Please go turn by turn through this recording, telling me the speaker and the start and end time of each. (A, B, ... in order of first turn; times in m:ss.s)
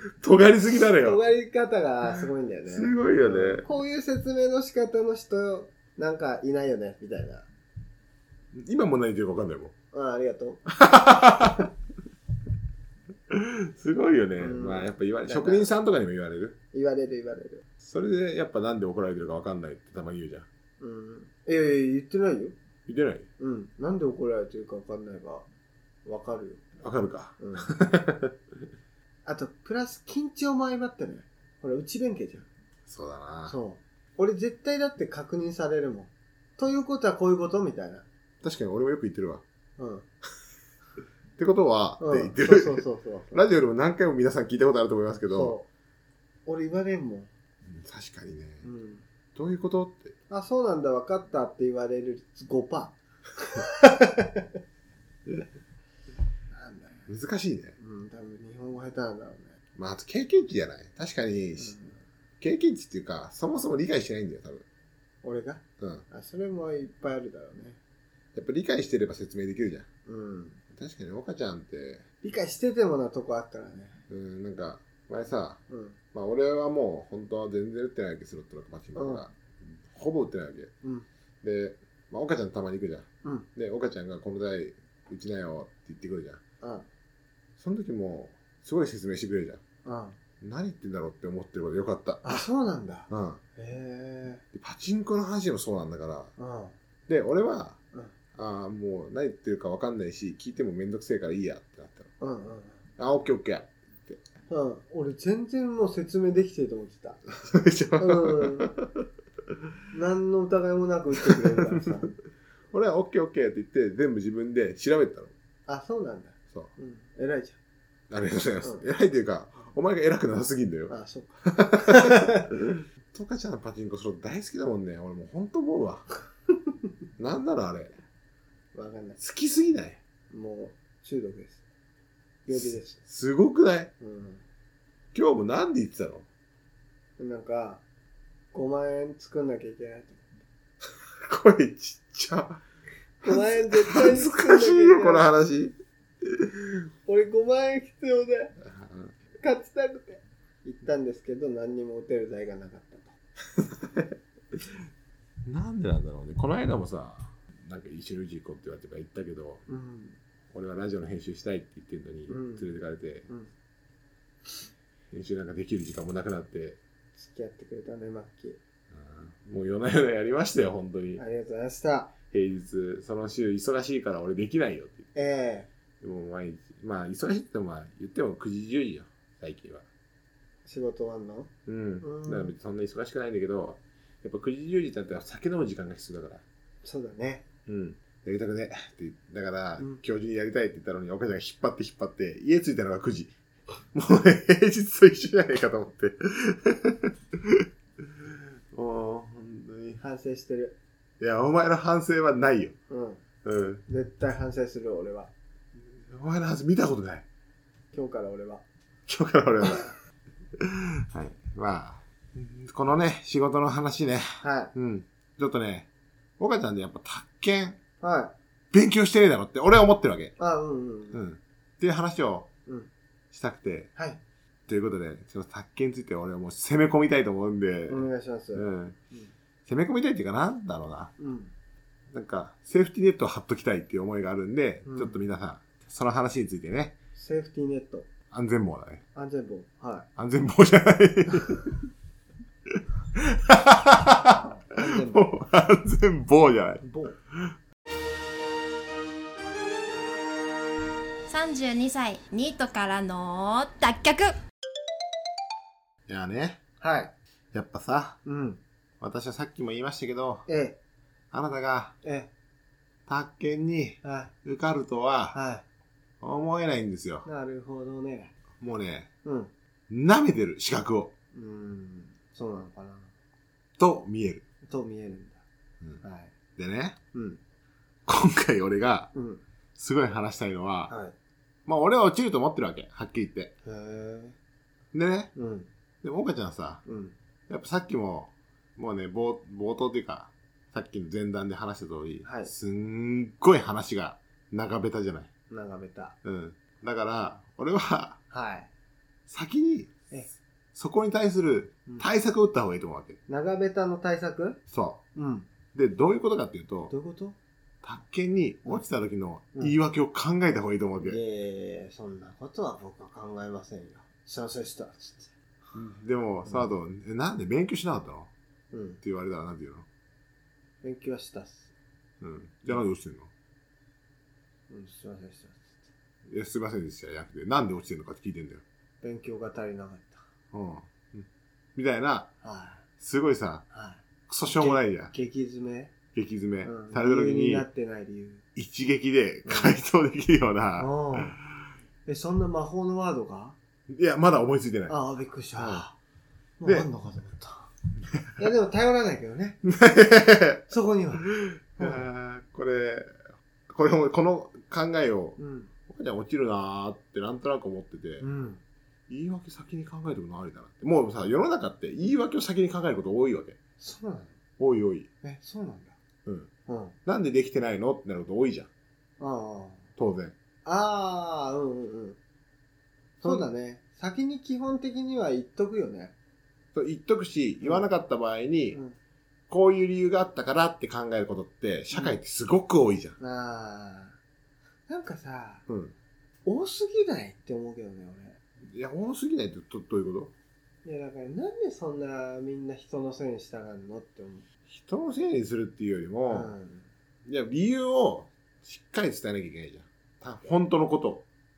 0:00.2-0:01.2 A
0:01.0-0:07.5 B
0:02.7-0:03.6 A
0:08.5-0:09.7 A
0:09.9-0:10.6 B
0:10.7-0:11.7 A
0:13.3-0:16.6 A
0:14.4-0:15.7 B
0:16.7-0:17.6 B
0:17.8-0:20.5 A
0:20.8-0:22.5 B
0:22.8-0:23.3 A
0:23.4-0:25.4 B
0:26.0-0:26.6 B
0:26.8-0:28.3 A
0:27.4-0:27.7 B
0:29.2-0:32.5 B
0:32.9-0:33.6 A
0:33.5-0:38.0 B
0:38.4-0:39.4 A
0:39.8-0:40.0 B
0:41.4-0:45.5 A
0:42.0-0:43.4 B
0:45.3-0:45.6 B
0:46.4-0:47.3 B
0:47.6-0:48.6 A
0:48.6-0:49.0 B
0:49.3-0:50.1 A
0:50.3-0:54.5 B
0:56.5-0:57.1 B
0:57.1-0:57.7 A
0:57.8-0:59.6 B
0:59.8-1:01.8 A
1:01.6-1:02.0 B
1:02.4-1:04.6 A
1:05.2-1:07.8 B
1:05.8-1:06.0 A
1:08.3-1:09.8 A
1:10.0-1:10.6 B
1:10.7-1:12.0 A
1:12.2-1:14.0 B
1:14.1-1:15.6 A
1:15.7-1:16.0 B
1:16.1-1:20.7 A
1:18.9-1:19.2 B
1:21.4-1:26.4 A
1:26.6-1:26.9 B
1:27.6-1:29.6 A
1:29.8-1:30.2 B
1:30.4-1:32.4 A
1:32.2-1:34.4 B
1:33.1-1:33.4 A
1:34.5-1:36.3 A
1:36.4-1:36.7 B
1:37.1-1:37.8 A
1:38.3-1:42.1 A
1:42.2-1:42.8 B
1:43.0-1:44.2 A
1:44.5-1:47.2 B
1:47.3-1:49.0 A
1:48.0-1:48.7 B
1:49.9-1:52.1 B
1:51.2-1:51.9 A
1:52.7-1:55.3 A
1:55.7-1:57.6 B
1:58.1-2:00.9 A
2:00.9-2:02.5 B
2:01.4-2:06.0 A
2:07.2-2:08.0 A
2:08.7-2:09.2 B
2:09.2-2:10.0 A
2:10.3-2:11.6 B
2:12.4-2:13.0 B
2:12.6-2:13.9 A
2:14.0-2:14.4 B
2:15.1-2:16.2 A
2:17.2-2:17.8 B
2:18.5-2:20.2 B
2:21.2-2:22.6 A
2:23.2-2:26.7 A
2:23.2-2:25.2 B
2:27.0-2:28.6 B
2:28.6-2:29.1 A
2:29.4-2:33.2 B
2:33.6-2:34.6 A
2:35.4-2:39.6 A
2:39.7-2:40.2 B
2:40.5-2:43.3 A
2:42.3-2:42.7 B
2:45.1-2:46.8 A
2:47.2-2:48.6 B
2:48.9-2:51.2 A
2:51.2-2:52.1 B
2:52.3-2:55.1 A
2:55.1-2:55.7 B
2:56.0-2:59.8 A
3:00.6-3:02.5 B
3:01.6-3:06.4 A
3:06.8-3:07.4 B
3:07.6-3:13.4 A
3:13.9-3:17.7 A
3:18.2-3:20.0 A
3:20.0-3:20.8 B
3:21.2-3:22.7 A
3:22.9-3:23.2 B
3:23.4-3:23.8 A
3:23.9-3:25.3 B
3:26.0-3:27.2 A
3:27.9-3:28.6 B
3:29.1-3:29.9 A
3:30.6-3:35.9 A
3:34.4-3:34.7 B
3:36.4-3:37.8 A
3:38.0-3:38.3 B
3:38.7-3:40.3 A
3:40.4-3:41.2 B
3:41.1-3:42.5 A
3:43.3-3:43.9 A
3:44.7-3:49.0 A
3:47.9-3:49.3 B
3:49.6-3:51.1 A
3:51.2-3:51.5 B
3:52.1-3:57.0 A
3:54.8-3:55.2 B
3:57.1-3:58.1 B
3:58.3-3:59.0 A
3:59.1-4:00.1 B
4:00.2-4:01.8 A
4:02.7-4:06.8 A
4:04.3-4:05.3 B
4:06.8-4:07.2 B
4:11.3-4:14.3 C
4:16.1-4:16.6 A
4:16.8-4:17.1 B
4:17.5-4:18.2 A
4:18.2-4:18.6 B
4:19.0-4:20.4 A
4:20.5-4:20.8 B
4:21.3-4:21.9 A
4:22.0-4:22.3 B
4:23.1-4:25.4 A
4:24.0-4:24.3 B
4:25.3-4:25.6 B
4:26.2-4:27.2 A
4:27.2-4:28.3 B
4:28.6-4:29.1 A
4:29.2-4:29.5 B
4:29.9-4:31.1 A
4:31.3-4:33.1 B
4:33.8-4:34.4 A
4:34.6-4:35.4 B
4:36.0-4:36.3 B
4:36.6-4:37.0 A
4:37.1-4:37.4 B
4:38.0-4:39.1 A
4:39.1-4:39.4 B
4:39.8-4:40.9 A
4:40.9-4:41.1 B
4:41.6-4:43.5 A
4:43.6-4:44.4 B
4:44.9-4:45.3 A
4:45.3-4:45.7 B
4:46.0-4:46.8 A
4:46.8-4:47.1 B
4:47.5-4:55.3 A
4:52.2-4:52.5 B
4:55.5-4:56.2 B
4:56.2-4:58.2 A
4:58.3-4:58.7 B
4:59.3-5:00.0 A
5:00.7-5:03.2 A
5:03.3-5:04.6 B
5:04.7-5:05.0 A
5:05.1-5:05.5 B
5:05.7-5:06.9 A
5:06.9-5:07.4 B
5:07.8-5:11.2 A
5:11.0-5:15.3 B
5:15.7-5:18.3 A
5:18.7-5:19.0 B
5:19.0-5:19.8 A
5:20.8-5:21.7 B
5:22.2-5:23.3 A
5:24.7-5:25.8 B
5:26.3-5:28.6 A
5:29.0-5:30.2 B
5:30.5-5:32.3 A
5:32.4-5:32.8 B
5:33.0-5:33.6 A
5:33.7-5:35.9 B
5:34.3-5:35.1 A
5:36.1-5:37.6 A
5:36.6-5:38.4 B
5:38.5-5:41.2 A
5:39.4-5:39.8 B
5:40.8-5:41.4 B
5:42.0-5:43.6 B
5:43.9-5:44.9 A
5:44.9-5:45.9 B
5:45.6-5:45.9 A
5:46.6-5:47.7 B
5:48.4-5:49.6 B
5:49.6-5:50.7 A
5:50.7-5:51.3 B
5:51.2-5:53.1 A
5:51.8-5:52.0 B
5:53.7-5:58.2 A
5:55.4-5:55.7 B
5:58.2-5:58.6 B
5:59.1-6:03.6 A
6:03.8-6:04.4 B
6:04.6-6:05.1 A
6:05.2-6:06.0 B
6:06.2-6:06.5 A
6:06.7-6:07.0 B
6:07.0-6:08.7 A
6:09.2-6:09.9 B
6:10.0-6:10.3 A
6:10.6-6:12.2 B
6:13.2-6:16.1 B
6:13.2-6:13.5 A
6:16.7-6:18.8 A
6:17.6-6:17.9 B
6:19.5-6:23.2 A
6:23.2-6:24.2 B
6:24.9-6:25.7 B
6:25.7-6:25.9 A
6:26.4-6:28.4 B
6:28.6-6:30.3 A
6:30.8-6:34.4 B
6:34.7-6:36.5 A
6:36.3-6:36.9 B
6:37.2-6:41.2 A